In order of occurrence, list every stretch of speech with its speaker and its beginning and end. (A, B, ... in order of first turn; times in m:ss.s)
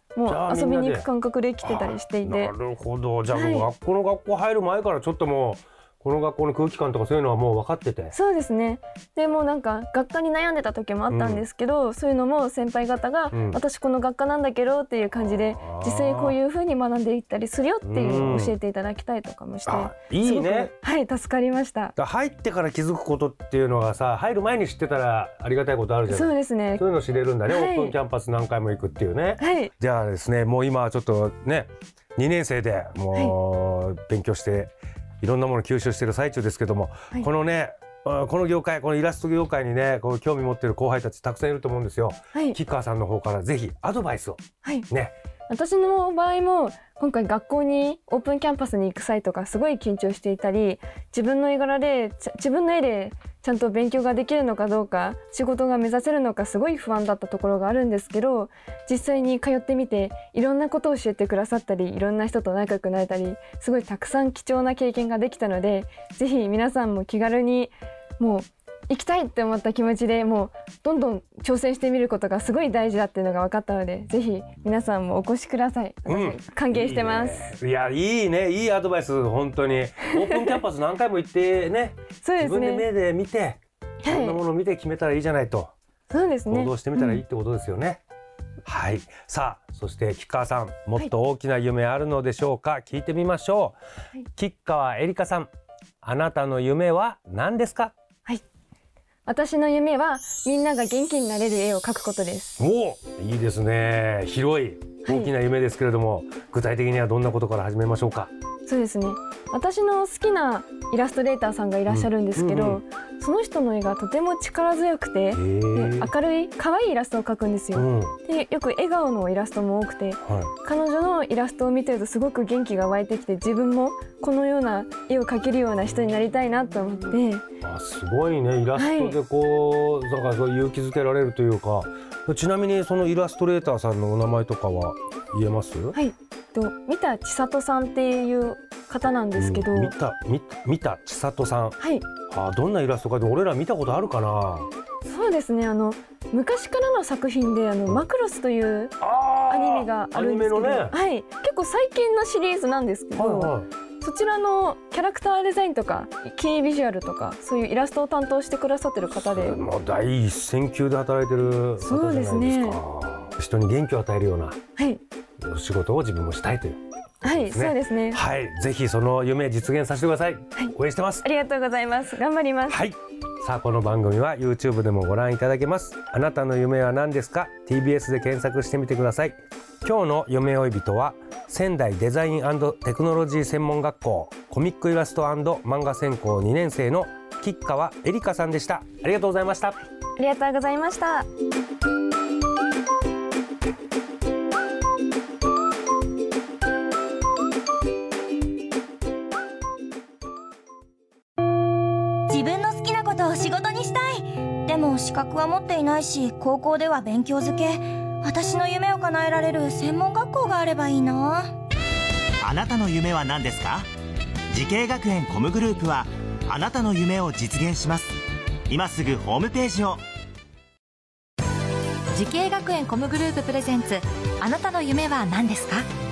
0:00.2-0:02.5 A
0:00.3-0:01.1 B
0:01.6-0:08.1 B
0:03.3-0:03.7 A
0:08.1-0:22.0 A
0:11.1-0:11.4 B
0:13.3-0:13.6 B
0:15.2-0:16.4 B
0:17.8-0:18.6 B
0:19.7-0:20.7 B
0:22.0-0:45.1 B
0:26.1-0:26.8 A
0:27.5-0:28.0 A
0:29.4-0:29.7 A
0:45.5-1:17.5 A
1:16.1-1:25.7 B
1:20.0-1:20.6 A
1:22.2-1:22.9 A
1:24.0-1:24.4 A
1:26.1-1:27.2 A
1:26.5-1:28.0 B
1:28.6-1:33.8 B
1:34.4-1:35.5 B
1:36.0-1:37.9 B
1:39.3-1:42.6 A
1:42.6-1:48.3 B
1:45.0-1:45.3 A
1:48.7-2:07.4 A
1:51.9-1:52.8 B
1:55.3-1:56.1 B
1:57.8-1:58.2 B
2:00.2-2:00.5 B
2:07.6-2:16.0 B
2:08.8-2:09.2 A
2:15.9-2:19.9 A
2:19.4-2:24.7 B
2:21.8-2:22.1 A
2:25.0-2:29.0 A
2:29.0-2:31.0 B
2:29.5-2:39.6 A
2:33.2-2:33.7 B
2:39.1-2:44.6 B
2:41.8-2:42.8 A
2:44.8-2:45.0 A
2:45.4-2:51.2 B
2:47.2-2:48.2 A
2:50.6-2:52.8 A
2:52.7-3:09.8 B
3:10.2-3:11.3 A
3:22.3-3:27.7 C
3:28.3-3:31.4 C
3:32.4-3:33.9 D
3:34.5-3:40.0 D
3:42.1-3:45.8 E